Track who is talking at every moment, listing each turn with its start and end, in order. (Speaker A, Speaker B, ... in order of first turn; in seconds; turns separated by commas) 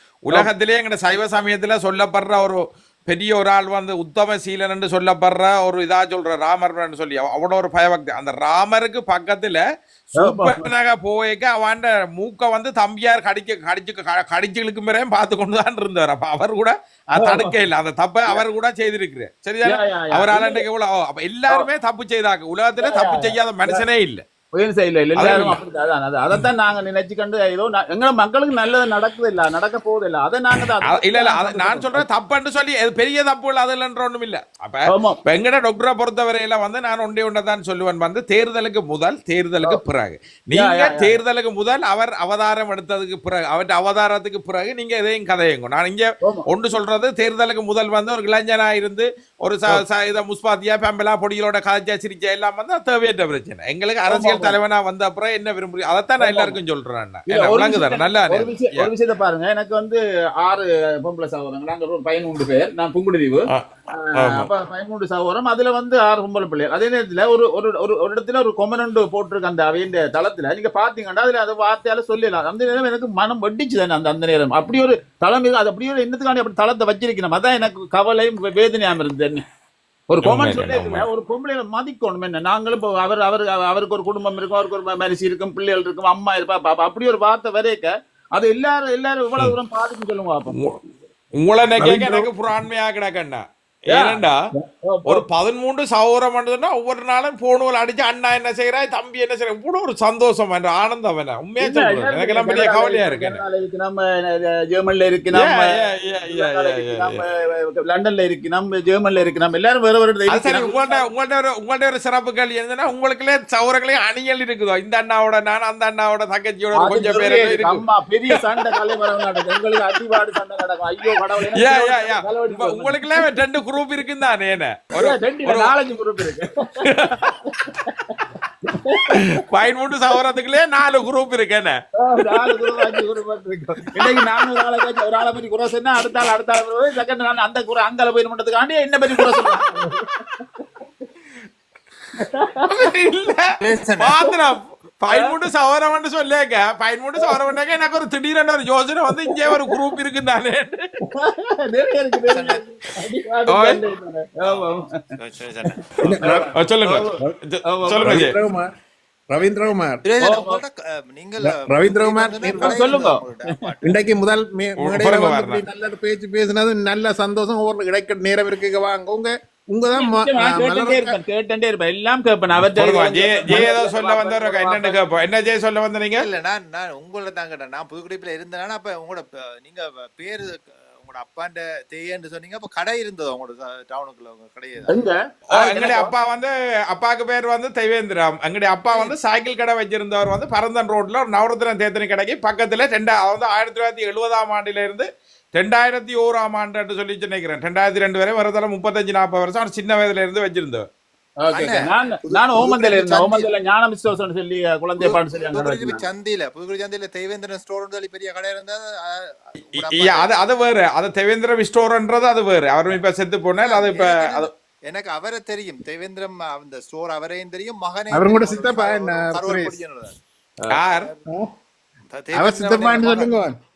Speaker A: 0.2-9.6, Speaker A: 10.1-24.2, Speaker B: 10.2-10.7, Speaker B: 17.1-17.6, Speaker B: 19.6-20.6, Speaker B: 22.8-23.8, Speaker B: 24.5-32.0, Speaker A: 25.1-25.6, Speaker A: 30.8-58.9, Speaker B: 34.9-35.2, Speaker B: 40.5-41.2, Speaker B: 54.0-54.5, Speaker B: 56.2-56.6, Speaker B: 57.3-79.4, Speaker A: 63.5-64.5, Speaker B: 80.1-90.6, Speaker A: 80.2-81.0, Speaker A: 90.5-90.8, Speaker A: 91.3-94.4, Speaker B: 91.8-92.2, Speaker B: 93.9-95.2, Speaker A: 95.0-103.4, Speaker B: 101.6-105.8, Speaker A: 105.3-107.2, Speaker B: 106.3-111.0, Speaker A: 110.3-118.4, Speaker B: 116.8-123.2, Speaker A: 121.5-125.7, Speaker B: 125.0-126.5, Speaker A: 126.8-127.3, Speaker B: 127.5-128.2, Speaker B: 128.7-129.2, Speaker A: 129.1-131.8, Speaker B: 132.1-140.0, Speaker A: 139.2-139.6, Speaker B: 142.3-142.6, Speaker A: 142.7-150.8, Speaker C: 143.6-144.1, Speaker B: 149.4-149.7, Speaker B: 151.1-154.9, Speaker C: 152.3-152.6, Speaker A: 153.5-153.8, Speaker C: 154.4-155.8, Speaker D: 156.0-156.5, Speaker A: 156.5-158.3, Speaker B: 157.7-158.2, Speaker D: 158.0-158.7, Speaker D: 159.3-160.0, Speaker C: 160.0-164.0, Speaker B: 160.2-160.6, Speaker D: 161.4-163.0, Speaker B: 162.6-163.2, Speaker D: 163.8-171.2, Speaker A: 164.8-165.6, Speaker B: 169.9-175.0, Speaker A: 172.7-176.2, Speaker C: 176.2-184.9, Speaker B: 184.9-186.1, Speaker A: 185.5-200.8, Speaker B: 201.4-206.0, Speaker C: 201.5-203.5, Speaker C: 205.0-210.3, Speaker A: 209.7-214.5, Speaker C: 213.6-220.2, Speaker D: 218.1-219.8, Speaker A: 220.7-221.1, Speaker C: 220.9-221.2, Speaker C: 222.1-223.4, Speaker D: 222.3-223.6